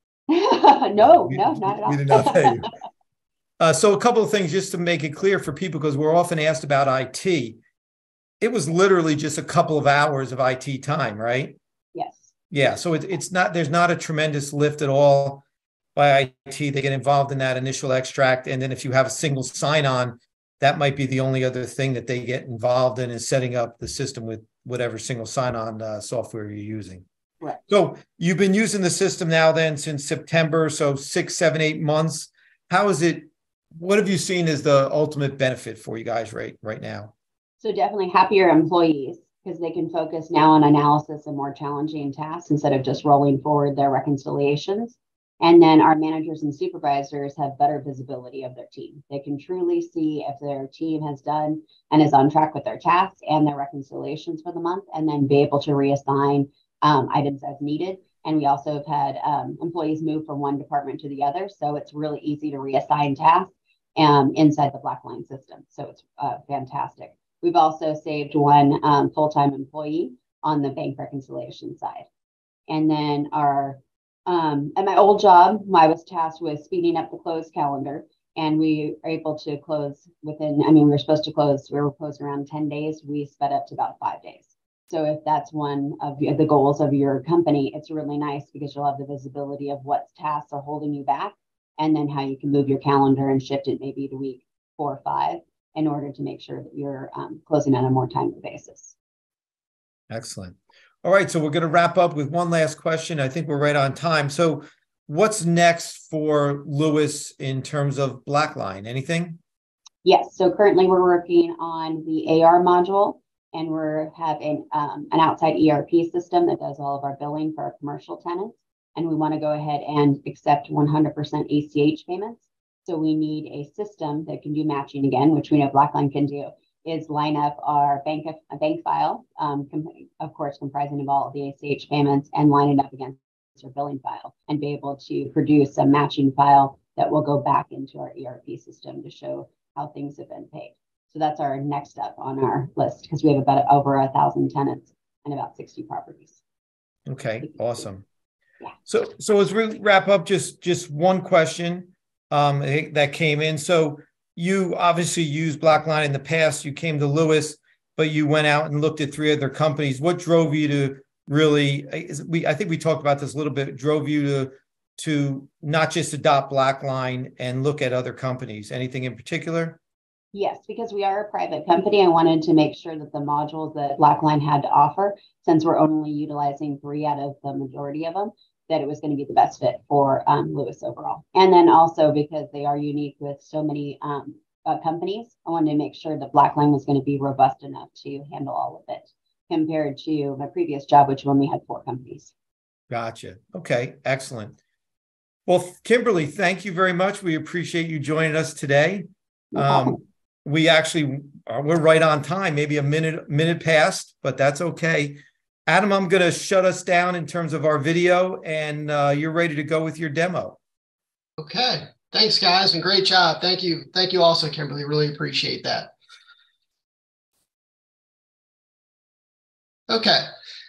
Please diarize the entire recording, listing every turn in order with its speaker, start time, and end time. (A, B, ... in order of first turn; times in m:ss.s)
0:00.3-0:02.7 A
0:01.0-0:02.7 B
0:03.6-0:07.6 B
0:08.4-0:11.6 B
0:11.9-0:12.3 A
0:12.5-0:15.4 B
0:16.0-0:27.0 B
0:27.7-0:37.1 B
0:37.6-1:12.1 A
1:12.7-1:38.9 A
1:40.1-1:49.4 B
1:50.0-2:26.4 A
2:27.1-2:28.0 B
2:28.9-2:49.8 B
2:50.3-3:12.3 A
3:12.9-3:14.6 B
3:15.5-3:30.6 B
3:19.6-3:20.0 A
3:31.4-3:35.9 C
3:39.9-3:40.3 C